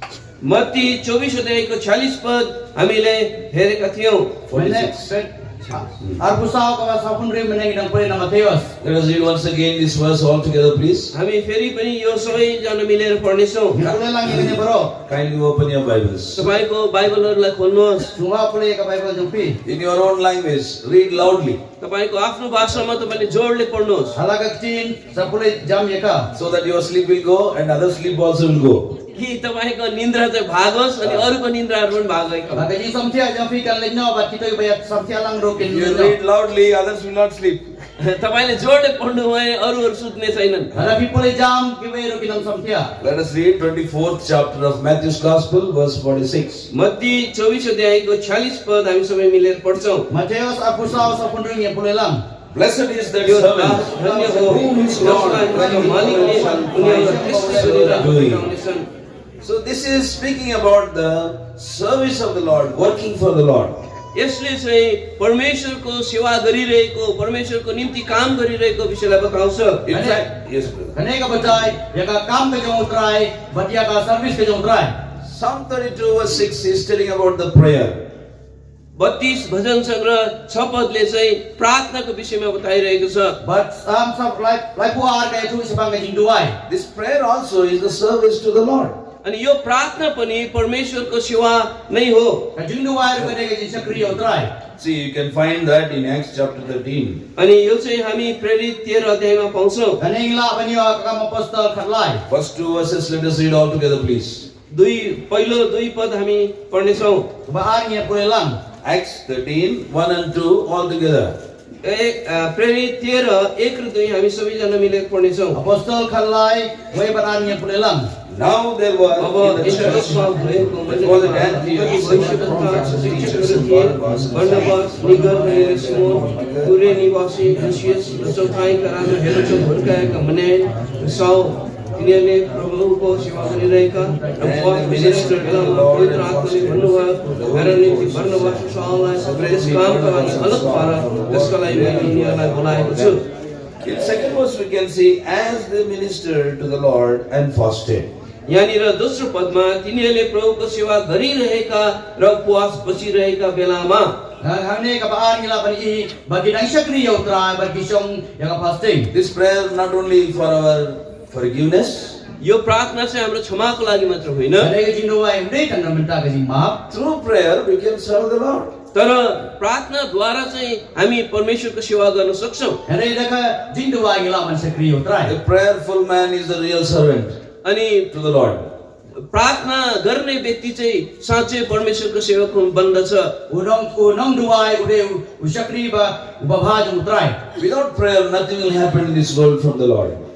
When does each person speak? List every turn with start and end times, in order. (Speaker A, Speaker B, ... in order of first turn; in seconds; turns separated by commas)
Speaker A: 0.4-4.4, Speaker B: 4.5-5.1, Speaker C: 4.5-8.7, Speaker B: 8.8-11.1, Speaker A: 11.1-13.8, Speaker C: 13.7-15.0, Speaker B: 14.2-16.5, Speaker A: 16.4-18.1, Speaker C: 18.1-19.6, Speaker B: 19.6-21.6, Speaker A: 21.8-24.2, Speaker C: 24.2-26.3, Speaker B: 26.3-29.0, Speaker A: 29.1-32.7, Speaker B: 31.0-31.3, Speaker C: 32.5-36.1, Speaker B: 35.6-37.7, Speaker A: 38.0-40.7, Speaker C: 40.7-42.9, Speaker B: 43.0-46.7, Speaker A: 46.7-50.1, Speaker C: 50.1-52.2, Speaker B: 52.5-58.5, Speaker A: 53.2-58.9, Speaker C: 53.9-58.1, Speaker B: 59.4-63.8, Speaker A: 64.1-69.9, Speaker B: 69.9-71.0, Speaker C: 69.9-70.2, Speaker C: 70.9-75.0, Speaker B: 75.2-78.1, Speaker A: 79.0-83.4, Speaker C: 83.4-86.6, Speaker B: 86.7-89.0, Speaker A: 89.2-92.5, Speaker C: 92.6-94.5, Speaker B: 94.8-97.2, Speaker A: 97.4-100.0, Speaker C: 100.0-102.2, Speaker B: 102.3-104.5, Speaker A: 104.7-107.3, Speaker C: 107.5-108.6, Speaker B: 108.8-111.4, Speaker A: 111.8-115.6, Speaker C: 115.5-118.1, Speaker B: 118.3-120.3, Speaker A: 119.2-143.2, Speaker B: 120.8-126.8, Speaker B: 134.4-143.2, Speaker B: 143.8-148.1, Speaker A: 148.5-154.1, Speaker C: 154.4-159.1, Speaker B: 159.1-162.2, Speaker A: 162.4-164.7, Speaker C: 164.6-166.8, Speaker B: 166.9-168.7, Speaker A: 168.9-172.8, Speaker C: 172.9-175.3, Speaker B: 175.2-177.4, Speaker A: 177.6-178.1, Speaker B: 178.1-178.7, Speaker A: 179.3-183.3, Speaker C: 183.5-187.4, Speaker B: 187.6-190.2